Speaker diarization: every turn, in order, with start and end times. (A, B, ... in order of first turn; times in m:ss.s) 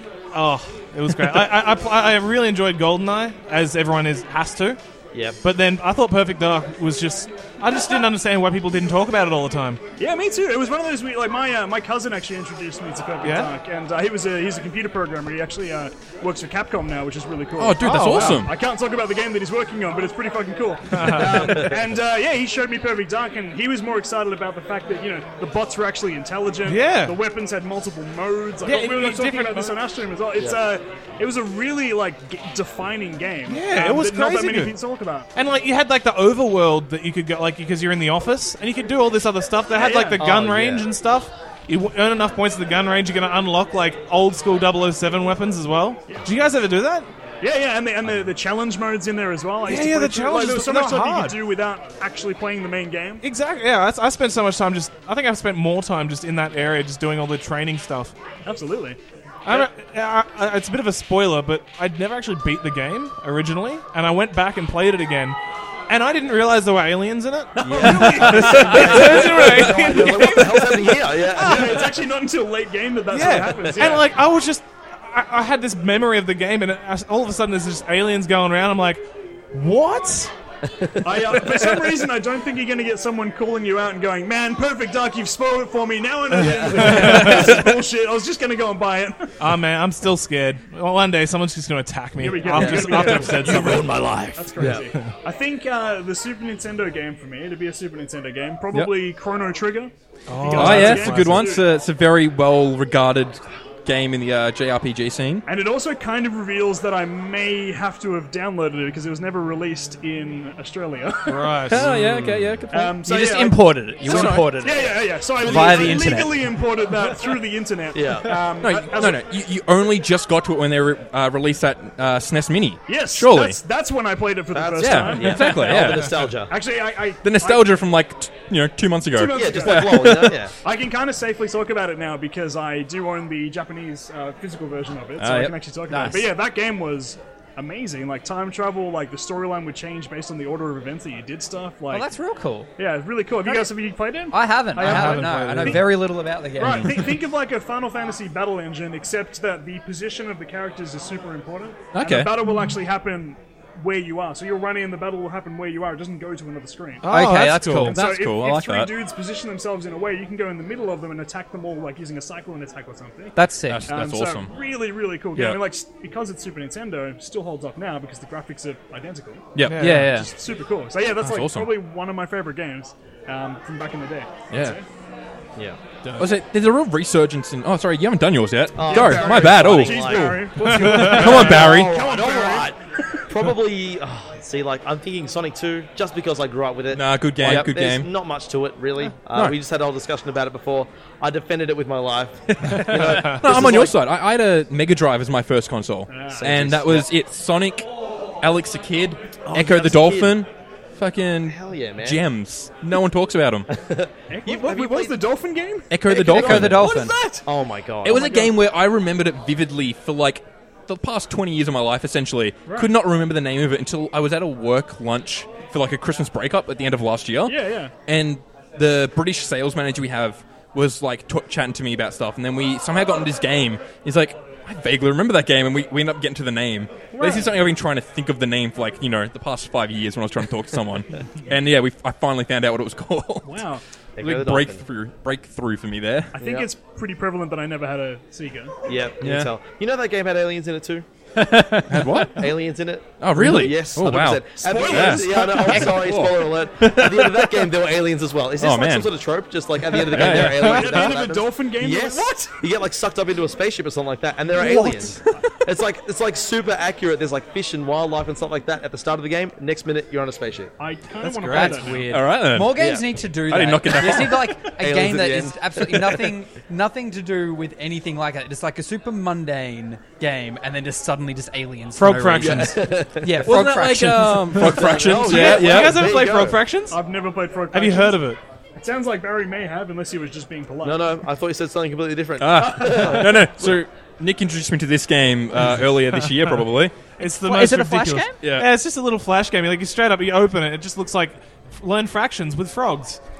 0:00.3-0:04.8 A
0:05.4-0:09.8 A
0:10.0-0:35.3 B
0:13.2-0:13.5 A
0:17.6-0:18.5 C
0:17.8-0:18.4 A
0:20.9-0:21.7 A
0:21.3-0:21.7 D
0:26.6-0:27.2 A
0:28.6-0:29.8 A
0:33.5-0:34.8 A
0:35.4-0:47.1 A
0:39.7-0:40.2 B
0:40.2-0:40.9 D
0:47.4-0:53.2 B
0:49.6-0:51.4 A
0:53.2-0:58.1 A
0:58.4-0:59.0 B
0:59.4-1:05.4 A
1:05.9-1:11.9 A
1:07.6-1:11.9 D
1:07.6-1:10.7 B
1:11.4-1:14.1 B
1:13.1-1:20.3 A
1:20.8-1:21.9 D
1:21.0-1:29.3 B
1:26.4-1:27.6 D
1:26.8-1:27.5 A
1:29.4-1:34.0 A
1:32.2-1:41.7 B
1:32.5-1:34.9 D
1:34.6-1:35.1 A
1:40.3-1:41.5 A
1:40.5-1:45.5 C
1:45.5-1:51.7 B
1:51.3-1:51.9 A
1:51.7-1:53.0 C
1:51.8-1:52.5 D
1:52.7-1:59.2 B
1:53.0-1:56.4 E
1:54.1-1:54.5 C
1:57.9-1:58.4 D
1:58.6-2:03.6 C
2:02.9-2:07.8 B
2:04.5-2:06.5 D
2:04.8-2:06.4 C
2:07.2-2:10.4 C
2:09.1-2:22.1 B
2:09.3-2:10.5 D
2:15.2-2:15.6 C
2:15.9-2:16.3 E
2:21.9-2:22.7 E
2:22.8-2:26.0 B
2:23.4-2:23.7 E
2:24.3-2:27.0 E
2:24.8-2:25.9 A
2:26.6-2:37.1 B
2:31.9-2:32.4 C
2:37.0-2:37.9 A
2:37.1-2:38.0 E
2:37.8-2:38.9 C
2:37.8-2:54.8 B
2:43.4-2:43.9 E
2:43.7-2:44.5 C
2:45.4-2:45.6 C
2:49.6-2:50.1 C
2:49.6-2:50.1 A
2:49.8-2:50.3 E
2:51.2-2:51.8 C
2:54.5-2:54.8 C
2:56.0-2:56.3 A
2:56.2-3:02.0 C
2:58.8-3:14.0 D
2:58.8-3:02.7 B
3:00.6-3:01.4 A
3:06.9-3:08.1 C
3:07.4-3:07.7 E
3:09.3-3:09.5 C
3:12.6-3:17.9 C
3:16.1-3:16.5 B
3:16.4-3:17.1 D
3:18.4-3:23.7 C
3:19.4-3:20.4 D
3:21.4-3:22.3 D
3:23.7-3:25.2 D
3:24.3-3:27.5 B
3:25.9-3:27.1 C
3:26.1-3:28.4 D
3:26.3-3:27.2 E
3:28.0-3:53.6 C
3:28.1-3:28.6 B
3:32.7-3:32.9 B
3:37.5-3:37.9 B
3:47.1-3:47.5 B
3:53.4-3:53.8 B
3:54.2-3:54.8 D
3:54.2-3:56.3 C
3:56.3-3:58.8 B
3:56.4-3:56.7 D
3:58.9-4:01.1 D
3:59.2-3:59.5 C
4:01.4-4:02.3 E
4:01.9-4:02.6 C
4:02.4-4:20.7 D
4:03.2-4:07.6 C
4:04.6-4:06.1 B
4:08.6-4:09.1 C
4:10.0-4:10.9 C
4:10.3-4:12.5 B
4:14.6-4:15.2 E
4:20.8-4:22.2 B
4:21.2-4:22.0 A
4:21.4-4:34.7 E
4:22.1-4:22.8 C
4:22.7-4:23.1 D
4:23.5-4:24.6 C
4:24.8-4:26.3 D
4:32.0-4:32.9 A
4:32.4-4:33.5 D
4:33.4-4:36.2 C
4:34.6-4:36.7 D
4:35.1-4:37.0 A
4:36.9-4:41.1 B
4:37.7-4:38.4 A
4:40.8-4:43.8 D
4:42.4-4:47.0 C
4:42.7-4:43.3 B
4:47.2-4:53.2 A
4:47.2-4:48.4 E
4:48.4-4:48.7 C